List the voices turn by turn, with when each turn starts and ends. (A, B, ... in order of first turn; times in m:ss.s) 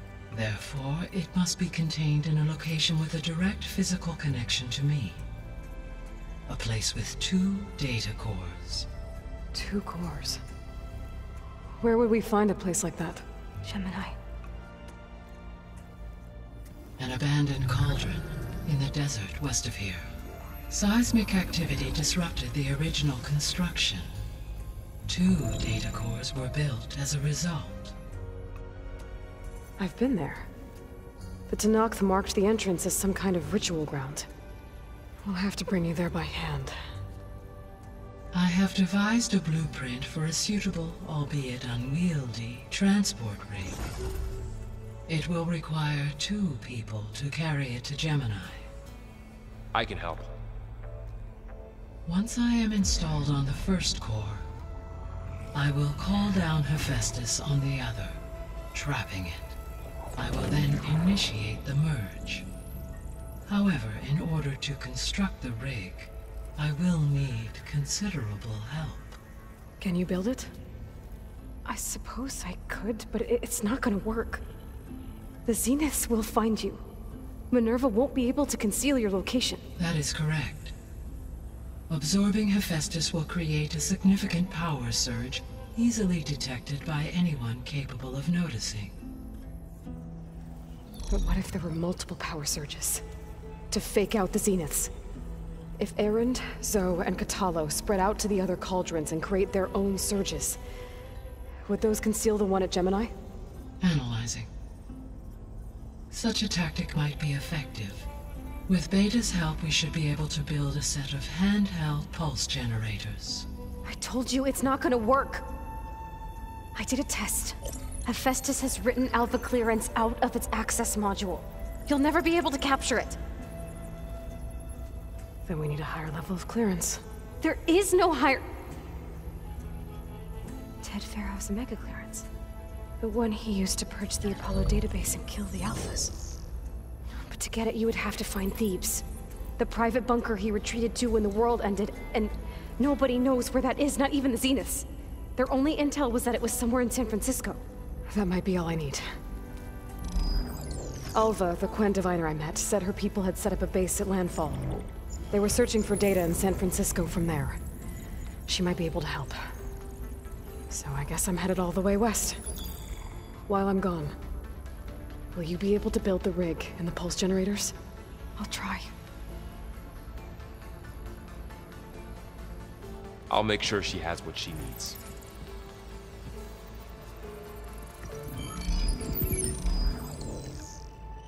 0:00.3-0:05.2 A
0:06.5-0:08.9 A
0:09.5-0:10.4 B
0:11.8-0:14.2 B
0:17.0-0:20.1 A
0:20.7-0:24.1 A
0:25.1-0:27.9 A
0:29.8-0:30.5 B
0:31.5-0:34.3 B
0:35.2-0:36.8 B
0:38.3-0:43.8 A
0:45.1-0:48.7 A
0:49.7-0:50.3 C
0:52.0-0:54.4 A
0:55.5-0:58.2 A
0:58.7-0:59.5 A
1:00.2-1:02.4 A
1:03.5-1:09.2 A
1:09.8-1:10.5 B
1:11.6-1:14.4 B
1:15.4-1:16.8 B
1:17.5-1:19.6 B
1:19.8-1:20.7 A
1:21.9-1:28.9 A
1:31.1-1:33.0 B
1:33.7-1:34.9 B
1:35.8-1:40.6 B
1:41.6-1:43.1 B
1:43.8-1:44.5 A
1:46.1-1:48.1 A
1:48.7-1:53.4 A
1:53.8-1:55.5 B
1:56.7-2:03.2 B
2:05.4-2:08.4 B
2:10.8-2:12.3 B
2:13.0-2:16.1 B
2:17.2-2:19.0 B
2:19.6-2:29.0 B
2:31.1-2:34.7 B
2:35.3-2:37.6 B
2:38.5-2:39.4 B
2:40.7-2:42.4 B
2:43.5-2:44.2 B
2:45.3-2:47.7 B
2:48.4-2:48.9 B
2:53.3-2:55.0 C